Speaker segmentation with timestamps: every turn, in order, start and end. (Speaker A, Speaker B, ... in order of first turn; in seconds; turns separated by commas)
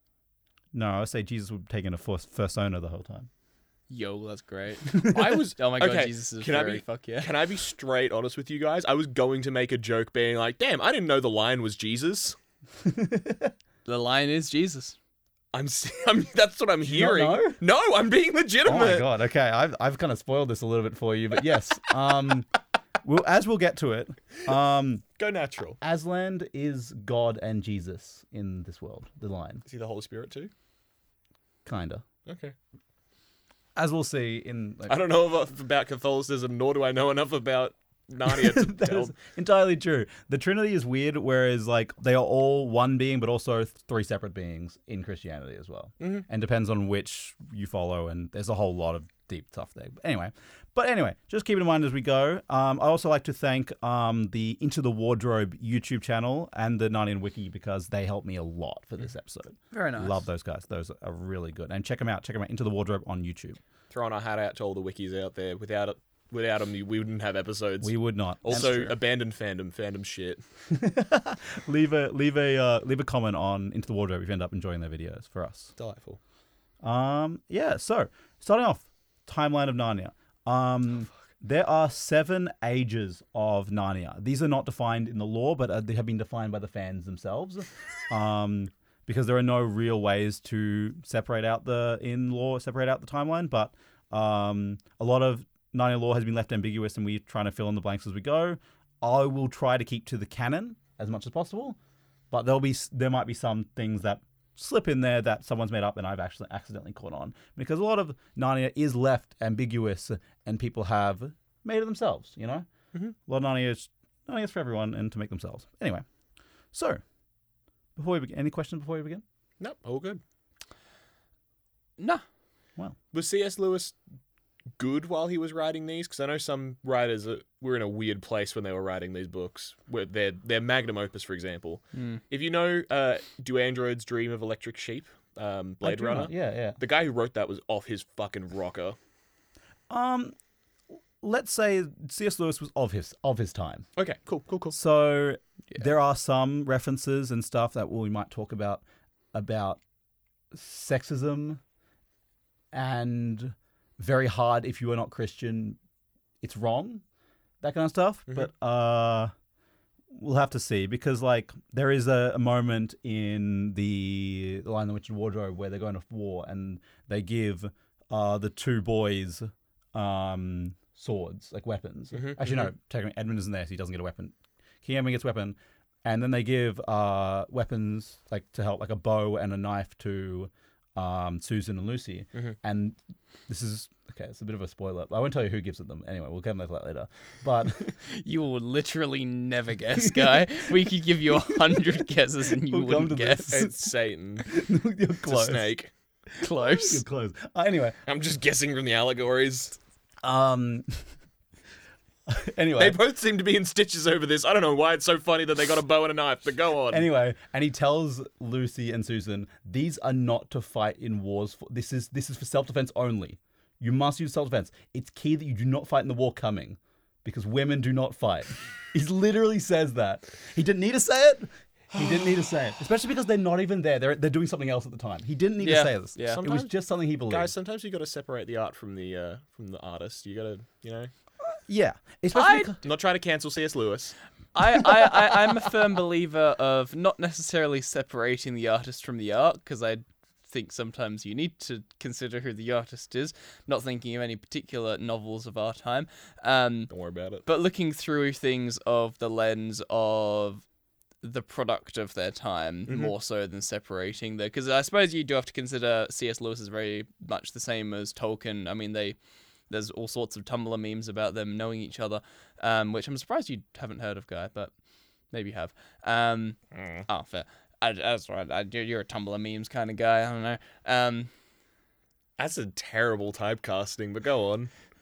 Speaker A: 0.7-3.3, Speaker B: 3.9-7.3, Speaker C: 5.0-12.3, Speaker A: 12.8-13.5, Speaker B: 13.8-14.9, Speaker C: 15.5-19.1, Speaker A: 16.8-17.6, Speaker A: 18.6-22.5, Speaker A: 23.0-25.0, Speaker C: 25.2-25.8, Speaker A: 25.8-29.6, Speaker C: 29.7-30.5, Speaker A: 31.6-32.0, Speaker C: 32.2-32.5, Speaker A: 33.8-35.0, Speaker C: 34.9-39.2, Speaker A: 38.2-63.6, Speaker C: 46.0-46.2, Speaker B: 59.7-60.2, Speaker C: 63.9-70.4, Speaker A: 67.8-69.0, Speaker A: 70.7-75.7, Speaker C: 75.8-76.2, Speaker A: 76.8-101.8, Speaker A: 102.3-112.7, Speaker A: 113.2-116.0, Speaker A: 116.7-117.0, Speaker A: 118.0-119.2, Speaker C: 119.6-120.2, Speaker B: 122.0-122.2, Speaker C: 123.1-124.0, Speaker C: 124.8-139.0, Speaker B: 131.9-132.2, Speaker A: 135.8-136.8, Speaker A: 139.9-140.3, Speaker A: 141.2-143.9, Speaker C: 144.0-144.8, Speaker A: 144.7-149.8, Speaker A: 150.5-151.6, Speaker A: 152.7-155.8, Speaker A: 156.4-157.0, Speaker A: 157.6-159.3, Speaker A: 160.1-187.9, Speaker C: 172.1-172.7, Speaker B: 188.0-193.6, Speaker A: 189.9-190.7, Speaker A: 191.5-191.8, Speaker A: 192.7-193.7, Speaker C: 193.5-194.6, Speaker A: 194.4-195.7, Speaker C: 195.2-195.9, Speaker B: 196.4-197.0, Speaker A: 196.4-197.9, Speaker C: 198.1-199.8, Speaker A: 200.2-201.1, Speaker A: 202.3-203.0, Speaker C: 202.8-207.0, Speaker A: 206.9-227.5, Speaker B: 225.6-226.4, Speaker C: 226.2-231.1, Speaker A: 231.7-232.8, Speaker B: 232.3-232.7, Speaker C: 232.8-234.1, Speaker B: 234.5-246.9, Speaker C: 246.9-247.4, Speaker B: 247.4-250.6, Speaker B: 251.2-259.2, Speaker B: 259.7-264.7, Speaker B: 265.3-271.3, Speaker C: 266.7-267.0, Speaker C: 272.4-274.7